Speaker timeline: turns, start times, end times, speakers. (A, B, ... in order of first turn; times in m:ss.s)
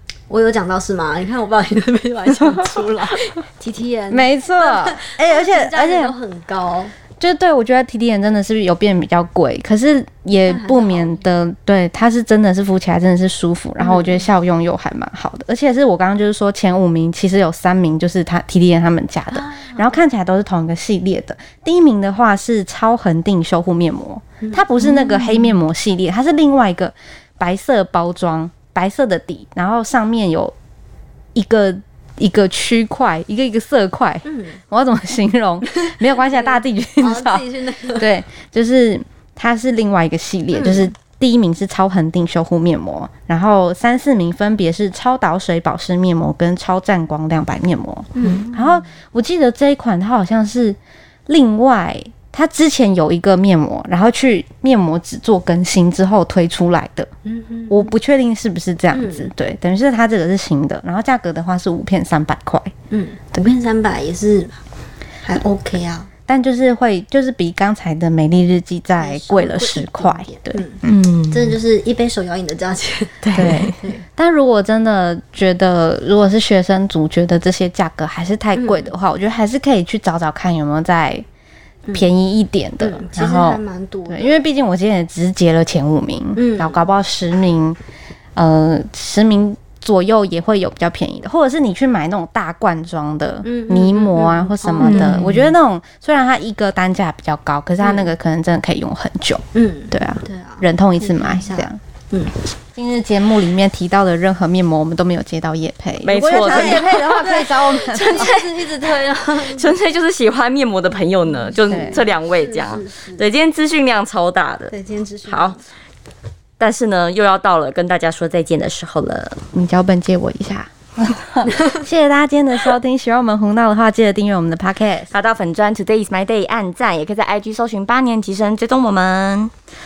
0:00.3-0:06.9 A
0:04.1-0:06.2 B
0:07.2-0:30.5 B
0:10.4-0:11.2 A
0:13.8-0:14.3 A
0:19.3-0:20.0 A
0:24.4-0:25.5 A
0:31.4-0:37.4 B
0:34.2-0:34.6 A
0:35.8-0:38.1 A
0:38.0-0:57.1 B
0:40.6-0:40.9 A
0:48.2-0:48.8 A
0:48.2-0:48.5 C
0:57.2-0:57.9 A
0:57.7-1:02.7 B
0:58.9-0:59.3 A
1:02.9-1:04.6 A
1:05.2-1:06.1 A
1:06.3-1:10.6 B
1:09.0-1:14.0 A
1:10.8-1:11.6 C
1:13.2-1:13.8 C
1:13.4-1:21.2 B
1:18.6-1:18.9 A
1:21.9-1:27.8 B
1:22.8-1:24.4 A
1:26.4-1:26.8 A
1:28.4-1:41.8 B
1:33.4-1:35.3 A
1:34.8-1:35.5 C
1:37.8-1:38.1 A
1:39.5-1:42.3 A
1:42.8-1:48.4 B
1:46.0-1:47.0 C
1:46.3-1:49.7 A
1:47.8-1:48.7 C
1:49.4-1:54.7 C
1:51.5-1:53.2 A
1:51.7-1:52.0 B
1:54.7-1:55.6 A
1:55.3-1:55.6 C
1:56.6-1:59.4 C
1:59.5-2:05.1 B
2:05.1-2:09.5 C